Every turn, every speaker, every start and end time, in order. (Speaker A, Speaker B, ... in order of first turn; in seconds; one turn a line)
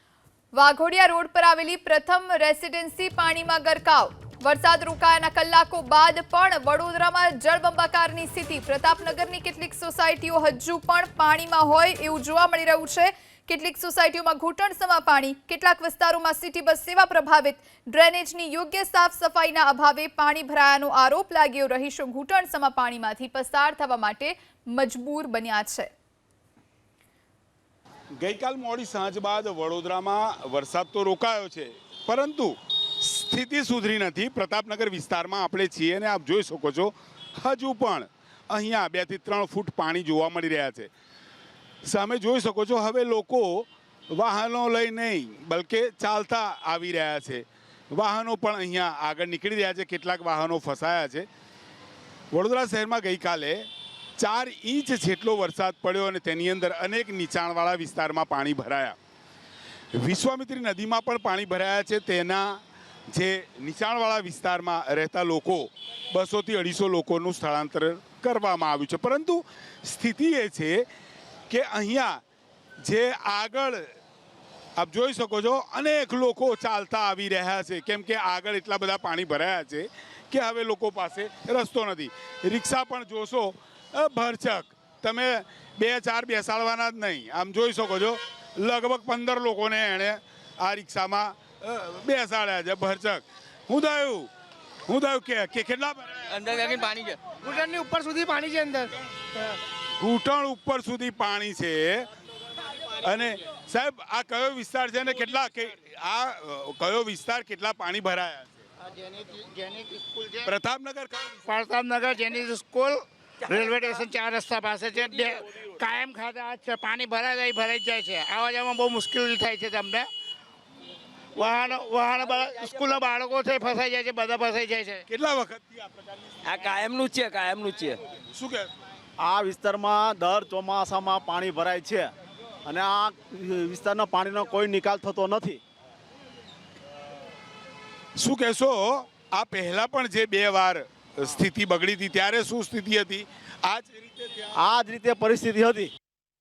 Speaker A: 0.5-25.9
Speaker B: 28.2-40.9
Speaker B: 41.9-51.3
Speaker B: 52.3-53.7
Speaker B: 54.2-59.0
Speaker B: 60.0-62.6
Speaker B: 63.1-70.8
Speaker B: 71.5-72.2
Speaker B: 72.8-73.9
Speaker B: 74.8-94.3
Speaker B: 94.9-96.1
Speaker C: 96.4-97.1
Speaker D: 97.4-98.9
Speaker B: 100.0-102.1
Speaker B: 103.0-108.5
Speaker D: 108.9-110.5
Speaker B: 110.4-111.3
Speaker D: 111.5-120.1
Speaker D: 121.3-125.0
Speaker B: 125.1-125.9
Speaker C: 126.4-128.0
Speaker B: 128.3-128.7
Speaker E: 129.2-132.1
Speaker E: 132.6-135.6
Speaker B: 138.2-144.4
Speaker E: 144.6-145.9